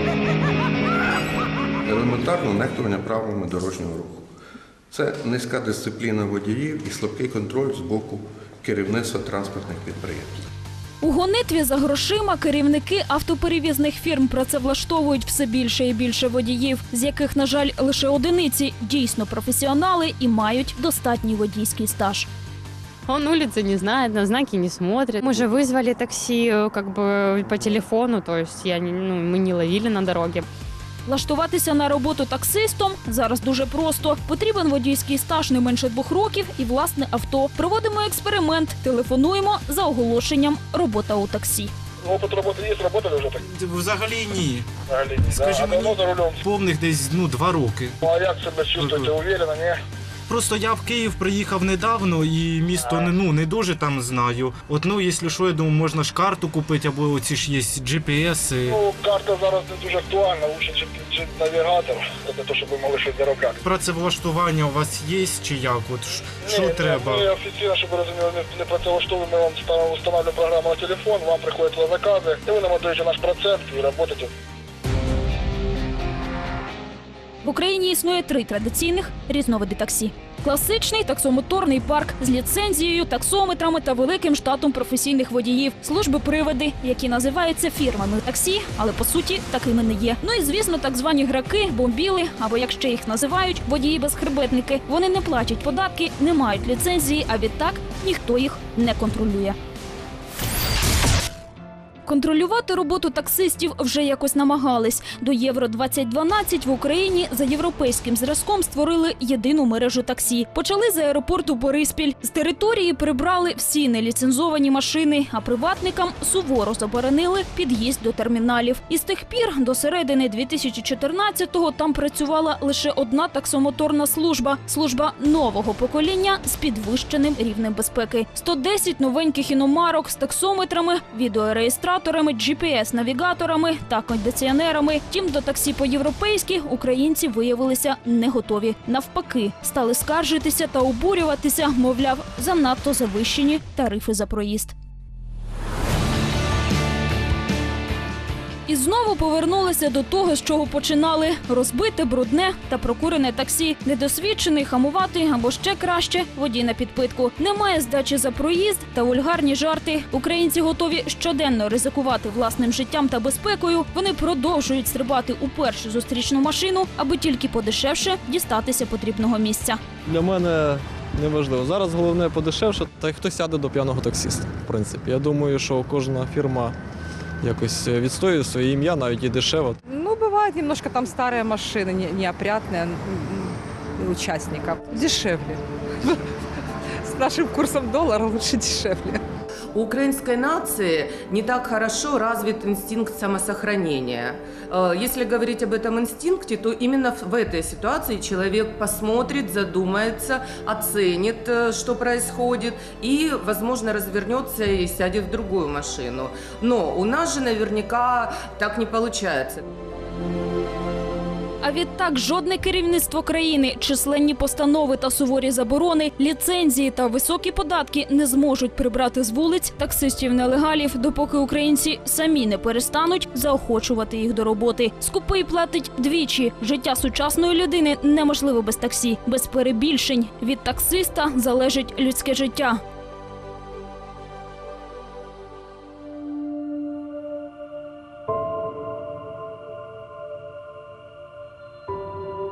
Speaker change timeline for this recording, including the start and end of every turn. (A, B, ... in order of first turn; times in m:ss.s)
0:01.8-0:04.2 A
0:04.9-0:10.5 A
0:11.0-0:22.3 B
0:23.0-0:30.5 C
0:31.0-0:41.7 B
0:42.0-0:43.4 D
0:43.4-0:44.7 E
0:44.9-0:46.4 D
0:45.3-0:48.0 E
0:48.0-0:49.8 D
0:48.8-0:49.1 E
0:50.3-0:58.8 E
0:58.6-1:03.6 D
1:03.6-1:07.3 E
1:06.4-1:14.3 D
1:17.4-1:39.6 B
1:42.0-2:24.7 B
2:28.6-2:49.8 B
2:50.0-2:56.8 F
2:57.4-2:59.8 F
2:59.8-3:06.2 G
3:07.0-3:09.2 G
3:09.7-3:29.6 H
3:31.6-3:52.8 B